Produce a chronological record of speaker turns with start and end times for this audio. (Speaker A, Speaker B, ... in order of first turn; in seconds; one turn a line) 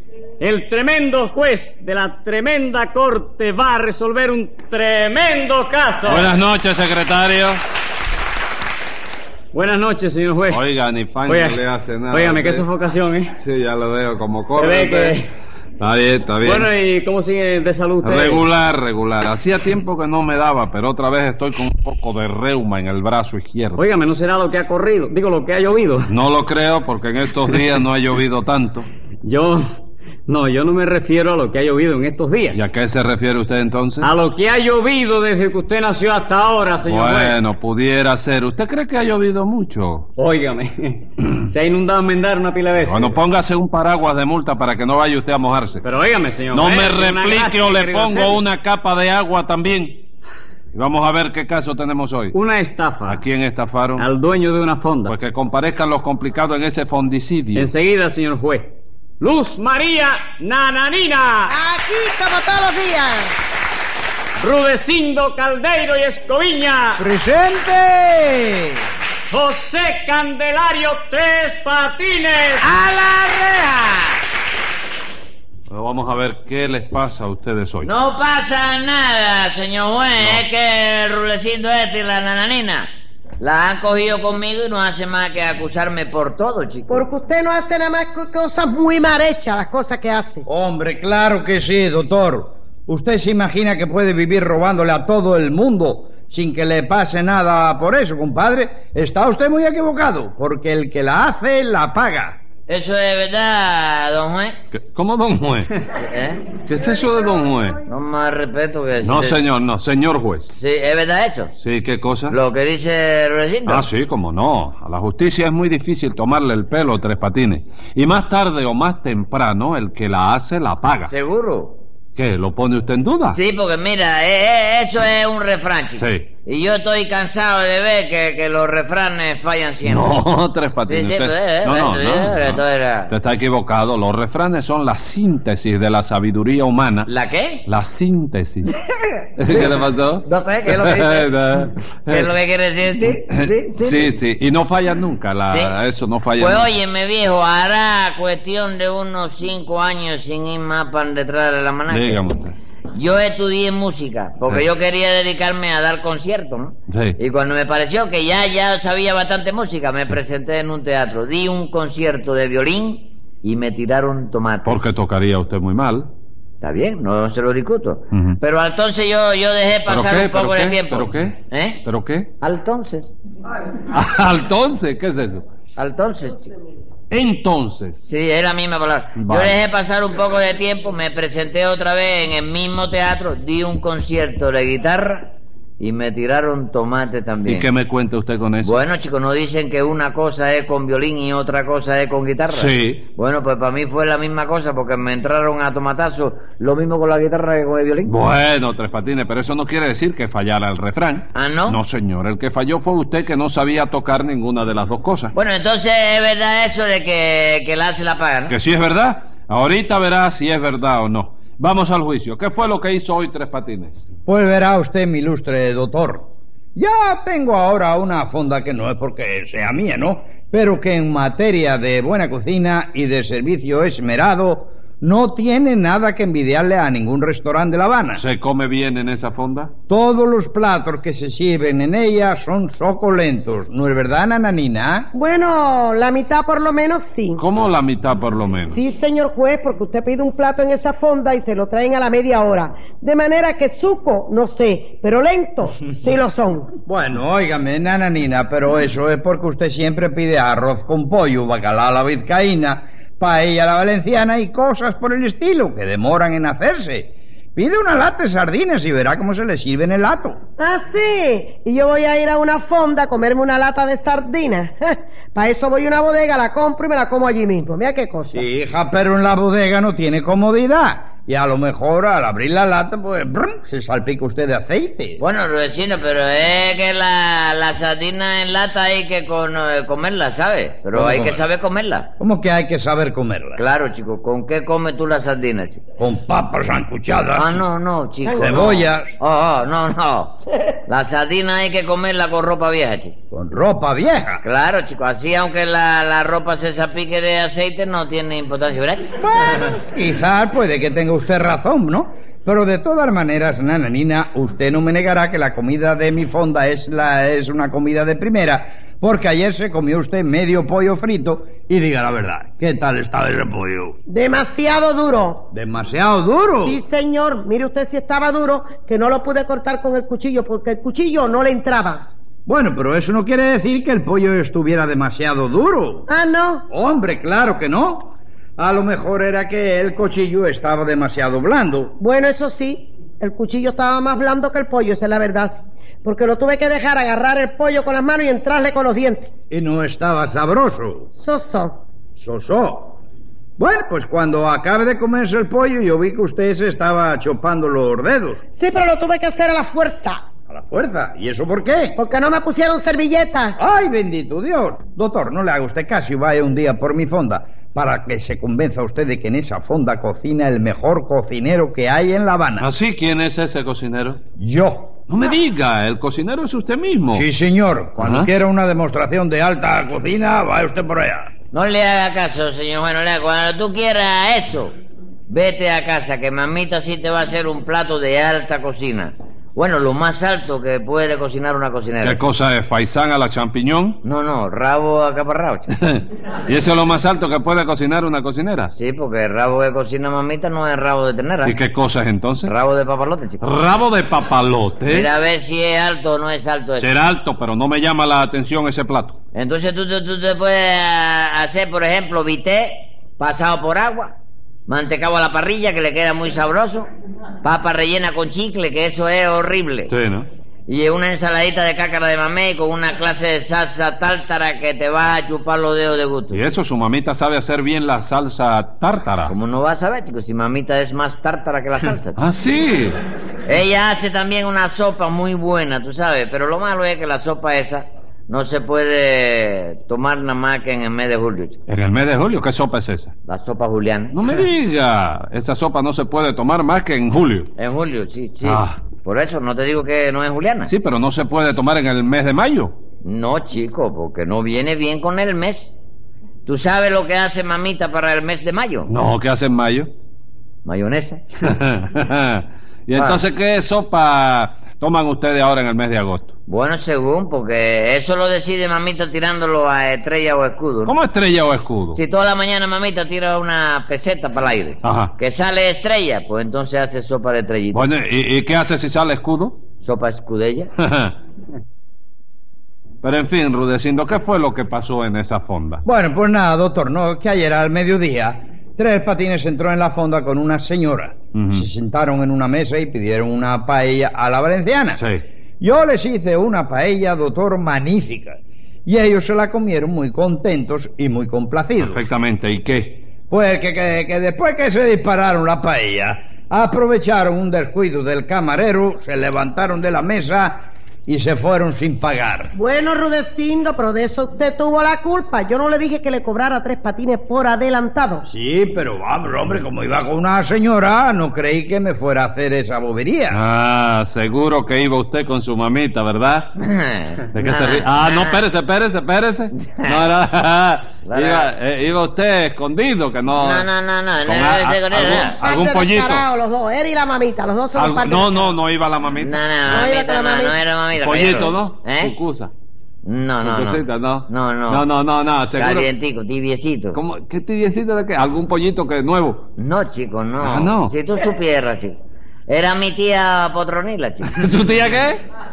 Speaker A: 0.4-6.3
Speaker B: 6.0-7.6
Speaker A: 9.5-10.6
Speaker B: 10.5-12.7
Speaker A: 11.2-13.4
Speaker B: 13.4-15.2
Speaker A: 14.5-15.3
Speaker B: 15.8-16.7
Speaker A: 16.4-18.4
Speaker B: 18.0-23.8
Speaker A: 23.8-26.1
Speaker B: 26.1-28.9
Speaker A: 29.2-29.6
Speaker A: 30.3-32.6
Speaker B: 32.5-34.1
Speaker A: 34.0-37.4
Speaker B: 36.9-40.1
Speaker A: 40.2-43.1
Speaker B: 42.8-45.8
Speaker A: 45.8-48.4
Speaker B: 46.5-50.0
Speaker B: 50.7-52.3
Speaker A: 52.3-53.2
Speaker B: 53.0-54.1
Speaker A: 54.0-55.1
Speaker B: 55.1-57.7
Speaker A: 57.5-61.5
Speaker C: 61.5-63.3
Speaker A: 64.4-67.0
Speaker D: 67.0-68.8
Speaker A: 69.3-72.6
Speaker E: 72.6-74.2
Speaker B: 75.7-77.9
Speaker E: 77.8-82.9
Speaker E: 83.4-87.1
Speaker C: 86.9-90.4
Speaker D: 90.5-102.4
Speaker E: 102.7-104.5
Speaker B: 104.7-105.7
Speaker E: 106.0-106.5
Speaker B: 106.7-107.8
Speaker E: 107.9-109.4
Speaker B: 109.0-110.5
Speaker E: 110.5-111.5
Speaker B: 111.5-112.3
Speaker E: 112.3-113.9
Speaker B: 113.7-121.1
Speaker E: 121.1-121.8
Speaker B: 122.2-123.4
Speaker E: 123.3-130.2
Speaker B: 126.0-126.3
Speaker B: 129.8-137.1
Speaker E: 130.8-133.1
Speaker E: 137.1-137.6
Speaker B: 137.7-138.8
Speaker B: 139.4-142.3
Speaker E: 139.5-141.3
Speaker E: 142.1-144.2
Speaker B: 143.3-146.7
Speaker E: 145.5-145.7
Speaker E: 146.4-152.3
Speaker B: 151.9-152.5
Speaker E: 152.9-164.9
Speaker B: 156.9-157.2
Speaker B: 164.6-166.1
Speaker E: 166.6-171.8
Speaker B: 168.1-168.4
Speaker B: 169.9-172.3
Speaker E: 172.4-173.1
Speaker B: 173.9-175.4
Speaker E: 175.8-176.5
Speaker B: 177.1-178.0
Speaker E: 178.0-187.7
Speaker B: 179.2-179.6
Speaker B: 187.4-188.8
Speaker E: 188.6-198.2
Speaker B: 192.5-193.1
Speaker B: 198.1-205.3
Speaker E: 201.3-201.8
Speaker E: 205.3-208.6
Speaker B: 208.5-214.0
Speaker D: 214.3-228.2
Speaker B: 228.1-229.7
Speaker D: 229.9-235.1
Speaker C: 235.1-237.4
Speaker B: 237.4-238.8
Speaker C: 238.7-246.7
Speaker D: 246.8-260.4
Speaker C: 260.6-268.4
Speaker D: 268.3-275.2
Speaker E: 275.2-282.1
Speaker D: 281.0-281.3
Speaker D: 282.2-283.6
Speaker E: 283.6-285.8
Speaker D: 286.0-287.6
Speaker E: 287.3-293.1
Speaker D: 288.3-289.1
Speaker D: 293.3-294.4
Speaker E: 294.4-299.1
Speaker D: 299.2-313.9
Speaker C: 314.1-315.4
Speaker D: 315.5-316.8
Speaker C: 316.6-322.1
Speaker D: 322.4-326.1
Speaker C: 326.1-326.6
Speaker D: 326.7-331.9
Speaker C: 332.0-339.3
Speaker D: 339.5-341.1
Speaker C: 341.1-341.7
Speaker D: 342.2-343.0
Speaker D: 343.6-348.4
Speaker C: 348.6-350.2
Speaker D: 350.5-352.0
Speaker C: 352.0-353.6
Speaker D: 353.6-362.7
Speaker B: 362.6-364.2
Speaker D: 364.4-364.9
Speaker B: 365.1-367.2
Speaker D: 367.1-371.3
Speaker B: 368.0-368.3
Speaker E: 371.5-374.7
Speaker E: 375.3-382.2
Speaker B: 382.0-384.0
Speaker E: 384.0-385.7
Speaker B: 385.7-388.7
Speaker E: 388.7-391.5
Speaker B: 391.4-392.5
Speaker E: 392.4-393.4
Speaker B: 393.4-395.1
Speaker E: 394.9-396.9
Speaker B: 396.8-399.2
Speaker E: 399.3-404.1
Speaker E: 404.7-406.9
Speaker E: 407.4-409.9
Speaker B: 409.9-410.3
Speaker E: 410.7-416.4
Speaker B: 416.3-419.3
Speaker E: 419.2-422.2
Speaker B: 422.2-423.0
Speaker E: 423.4-431.6
Speaker B: 431.7-433.1
Speaker E: 433.3-434.1
Speaker B: 434.1-437.5
Speaker E: 437.6-440.7
Speaker B: 438.4-438.8
Speaker B: 440.7-442.7
Speaker E: 443.0-445.8
Speaker E: 446.4-448.9
Speaker B: 448.9-449.9
Speaker E: 450.6-451.2
Speaker B: 451.4-456.3
Speaker E: 452.9-453.2
Speaker E: 456.5-460.9
Speaker B: 460.9-462.0
Speaker E: 461.9-467.8
Speaker B: 464.8-465.1
Speaker B: 467.7-469.6
Speaker E: 469.8-470.7
Speaker B: 470.8-471.1
Speaker B: 473.0-475.8
Speaker D: 475.8-485.0
Speaker B: 481.3-481.6
Speaker B: 485.0-485.2
Speaker D: 485.6-492.0
Speaker B: 491.8-493.0
Speaker D: 493.3-502.5
Speaker C: 502.6-508.2
Speaker D: 508.3-513.4
Speaker B: 513.3-516.5
Speaker E: 516.6-518.4
Speaker B: 517.3-523.7
Speaker E: 519.6-520.0
Speaker E: 521.0-521.5
Speaker E: 523.4-525.4
Speaker B: 524.2-526.3
Speaker C: 525.4-528.5
Speaker B: 527.7-529.4
Speaker E: 529.2-532.1
Speaker C: 529.7-530.6
Speaker B: 531.0-532.5
Speaker E: 533.0-534.8
Speaker B: 533.4-535.9
Speaker E: 535.5-537.0
Speaker B: 536.9-539.4
Speaker E: 539.6-542.0
Speaker B: 540.4-540.9
Speaker E: 542.5-544.4
Speaker B: 544.2-545.2